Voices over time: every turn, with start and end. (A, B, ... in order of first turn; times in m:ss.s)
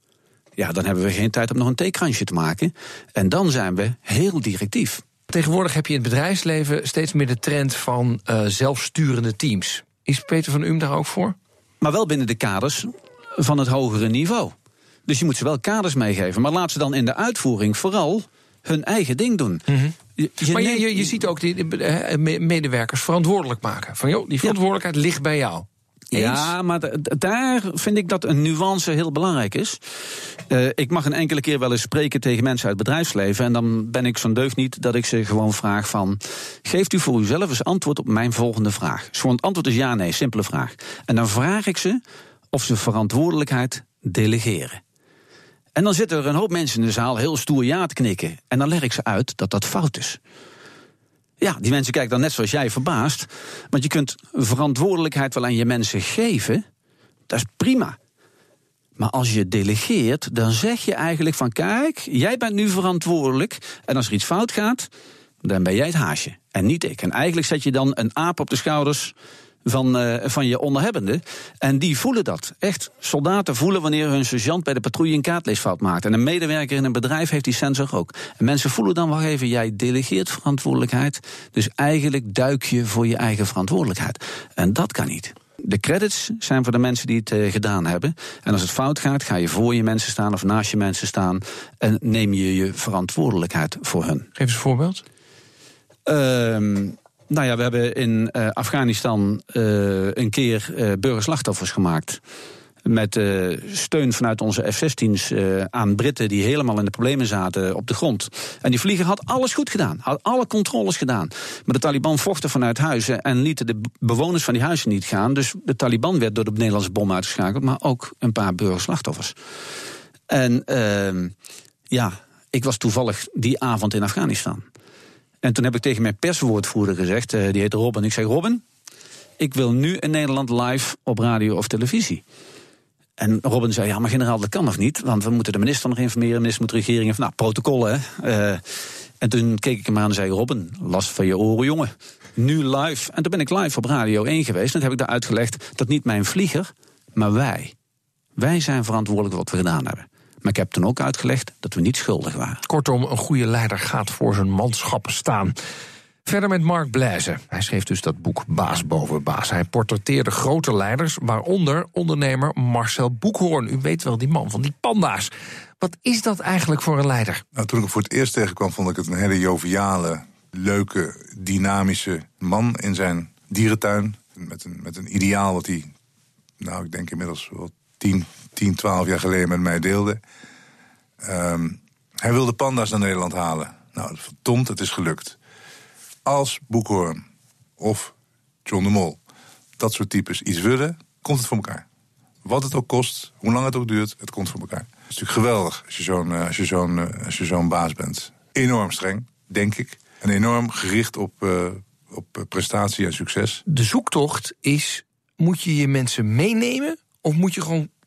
0:00.6-0:05.0 A
0:05.3-0:11.4 B
0:11.8-0:14.5 A
0:15.1-0:19.7 A
0:19.7-0:26.5 B
0:20.2-0:21.1 A
0:26.1-0:29.8 A
0:30.5-0:42.0 A
0:42.5-0:44.8 A
0:45.8-0:50.2 A
0:51.4-0:56.6 A
0:57.3-0:58.0 A
0:59.0-1:04.9 A
1:05.4-1:09.1 A
1:09.7-1:34.3 A
1:34.4-1:35.0 B
1:36.1-1:42.2 A
1:42.9-1:59.4 A
2:00.3-2:01.3 A
2:01.9-2:04.6 A
2:05.4-2:08.6 A
2:09.4-2:12.2 A
2:13.2-2:18.6 A
2:19.2-2:27.7 A
2:28.4-2:32.6 A
2:32.6-2:35.6 B
2:36.2-2:47.4 B
2:47.6-2:55.9 C
2:56.6-3:00.2 C
3:01.2-3:05.4 C
3:06.3-3:07.2 C
3:07.8-3:08.1 C
3:08.7-3:09.2 C
3:09.8-3:11.8 C
3:12.4-3:23.6 C
3:23.7-3:27.9 B